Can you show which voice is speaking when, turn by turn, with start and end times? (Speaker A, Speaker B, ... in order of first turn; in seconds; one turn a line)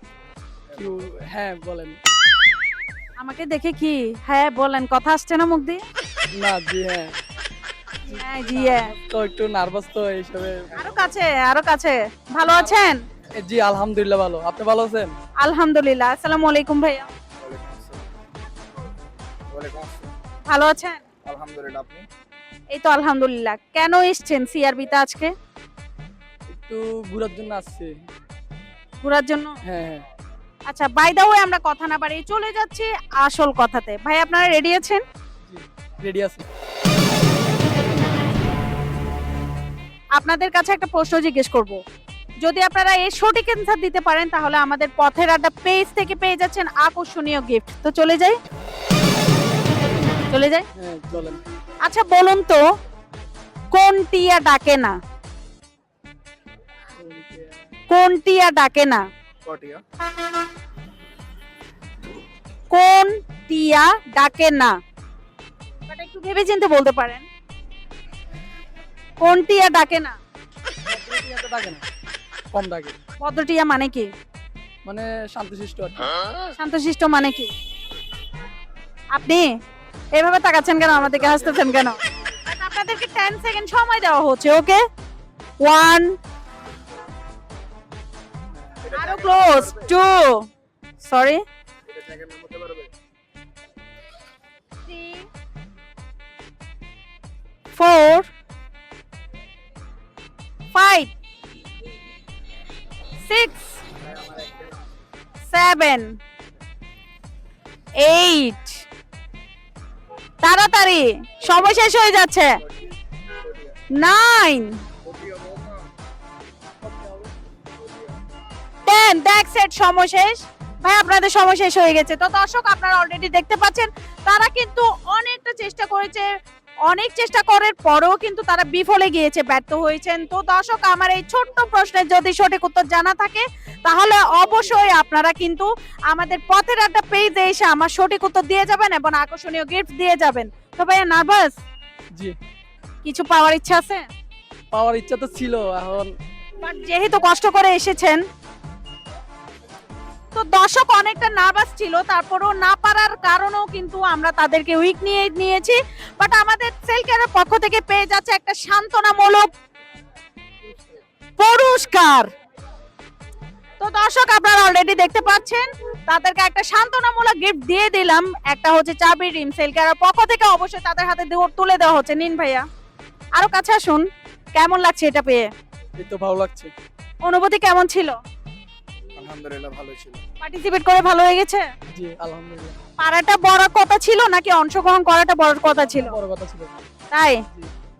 Speaker A: 0.7-2.0
Speaker B: 3.2-5.8
Speaker A: 6.3-7.2
Speaker B: 8.0-8.9
Speaker A: 8.1-10.9
Speaker B: 10.7-13.0
Speaker A: 13.3-15.2
Speaker B: 15.4-17.1
Speaker C: 17.3-18.1
Speaker C: 19.5-20.1
Speaker B: 20.4-21.0
Speaker C: 21.2-22.1
Speaker B: 22.7-25.3
Speaker A: 26.5-28.0
Speaker B: 29.0-29.6
Speaker A: 29.6-30.1
Speaker B: 30.7-35.0
Speaker A: 35.4-36.5
Speaker B: 40.1-41.8
Speaker B: 42.4-48.4
Speaker B: 50.3-50.6
Speaker A: 50.7-51.4
Speaker B: 51.8-52.6
Speaker B: 53.7-55.0
Speaker A: 57.0-57.6
Speaker B: 57.9-59.0
Speaker C: 59.4-59.8
Speaker B: 62.7-64.8
Speaker B: 65.9-67.2
Speaker B: 69.2-70.2
Speaker A: 70.8-71.8
Speaker A: 72.5-73.0
Speaker B: 73.2-74.1
Speaker A: 74.8-76.2
Speaker B: 76.5-77.5
Speaker B: 79.1-79.5
Speaker B: 80.1-84.8
Speaker A: 80.9-81.5
Speaker B: 85.6-86.2
Speaker A: 88.5-88.9
Speaker C: 88.8-89.9
Speaker B: 88.9-90.5
Speaker B: 91.0-91.4
Speaker C: 91.9-92.9
Speaker B: 94.8-95.3
Speaker B: 97.7-98.3
Speaker B: 100.7-101.1
Speaker B: 103.3-103.8
Speaker C: 104.0-104.8
Speaker B: 105.5-106.2
Speaker B: 108.0-108.8
Speaker B: 110.4-112.6
Speaker C: 113.4-113.8
Speaker B: 113.9-114.8
Speaker C: 115.0-115.9
Speaker A: 116.8-117.9
Speaker B: 118.8-126.3
Speaker B: 126.9-141.6
Speaker B: 143.0-144.1
Speaker A: 144.7-146.1
Speaker B: 146.6-148.2
Speaker B: 150.3-159.5
Speaker B: 161.4-162.3
Speaker B: 163.8-172.7
Speaker B: 173.3-175.5
Speaker A: 176.0-176.7
Speaker B: 177.2-178.2
Speaker C: 179.2-180.2
Speaker B: 180.4-181.7
Speaker A: 181.9-182.8
Speaker B: 183.0-186.2
Speaker A: 185.6-186.8
Speaker B: 187.1-187.4